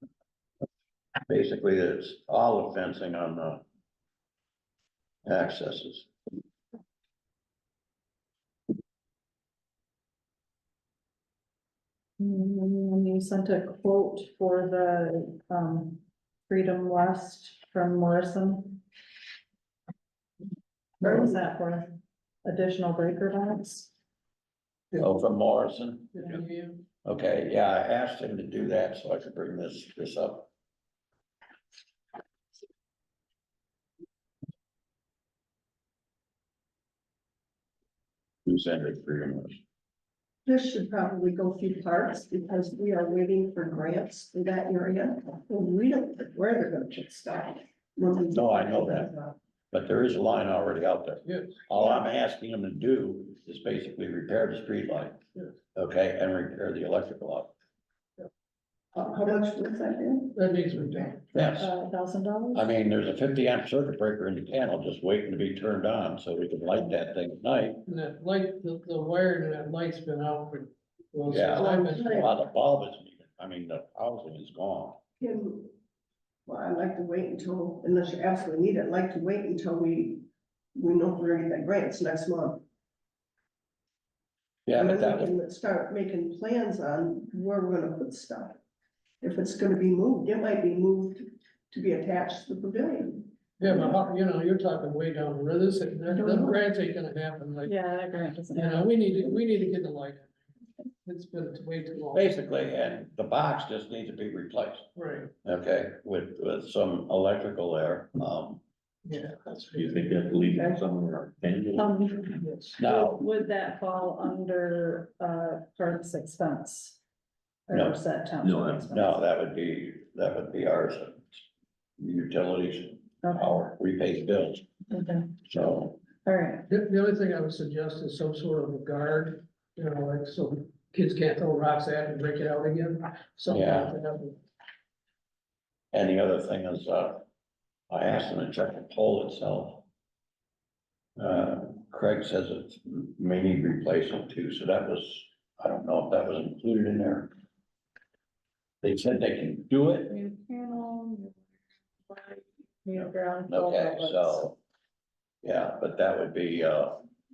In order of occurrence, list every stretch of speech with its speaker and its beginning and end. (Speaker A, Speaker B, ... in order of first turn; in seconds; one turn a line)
Speaker A: 1.3-3.6
Speaker A: 5.2-6.1
Speaker B: 12.2-18.8
Speaker B: 21.0-23.9
Speaker A: 25.0-26.4
Speaker C: 26.1-26.8
Speaker A: 27.0-30.5
Speaker A: 38.5-39.6
Speaker D: 40.5-49.4
Speaker A: 48.3-49.1
Speaker A: 49.7-55.2
Speaker C: 51.2-51.5
Speaker A: 55.7-57.5
Speaker D: 58.9-60.4
Speaker C: 60.3-61.2
Speaker A: 61.3-61.7
Speaker B: 61.6-62.8
Speaker A: 62.5-67.8
Speaker C: 67.9-72.2
Speaker A: 71.3-75.0
Speaker D: 71.6-72.3
Speaker D: 75.2-75.7
Speaker D: 76.5-80.2
Speaker D: 80.7-82.6
Speaker A: 84.7-85.3
Speaker D: 84.7-88.6
Speaker D: 89.2-93.7
Speaker C: 93.6-97.8
Speaker B: 96.1-96.6
Speaker B: 97.6-99.2
Speaker C: 98.5-100.3
Speaker C: 101.0-102.4
Speaker A: 102.1-104.9
Speaker C: 104.9-105.3
Speaker A: 105.4-108.6
Speaker C: 109.1-109.4
Speaker E: 109.1-111.9
Speaker B: 111.8-117.0
Speaker C: 112.3-112.8
Speaker A: 112.8-113.2
Speaker B: 117.7-119.2
Speaker A: 117.7-118.0
Speaker E: 118.4-118.9
Speaker A: 118.9-121.4
Speaker A: 122.0-124.7
Speaker B: 123.2-123.5
Speaker B: 124.9-125.3
Speaker A: 125.5-126.0
Speaker B: 126.2-126.6
Speaker C: 126.7-134.4
Speaker A: 133.5-133.9
Speaker A: 135.9-137.2
Speaker A: 137.9-139.8
Speaker A: 141.2-147.3
Speaker A: 148.8-150.1
Speaker B: 150.1-151.4
Speaker B: 152.1-154.5
Speaker A: 152.9-154.6
Speaker A: 155.4-157.0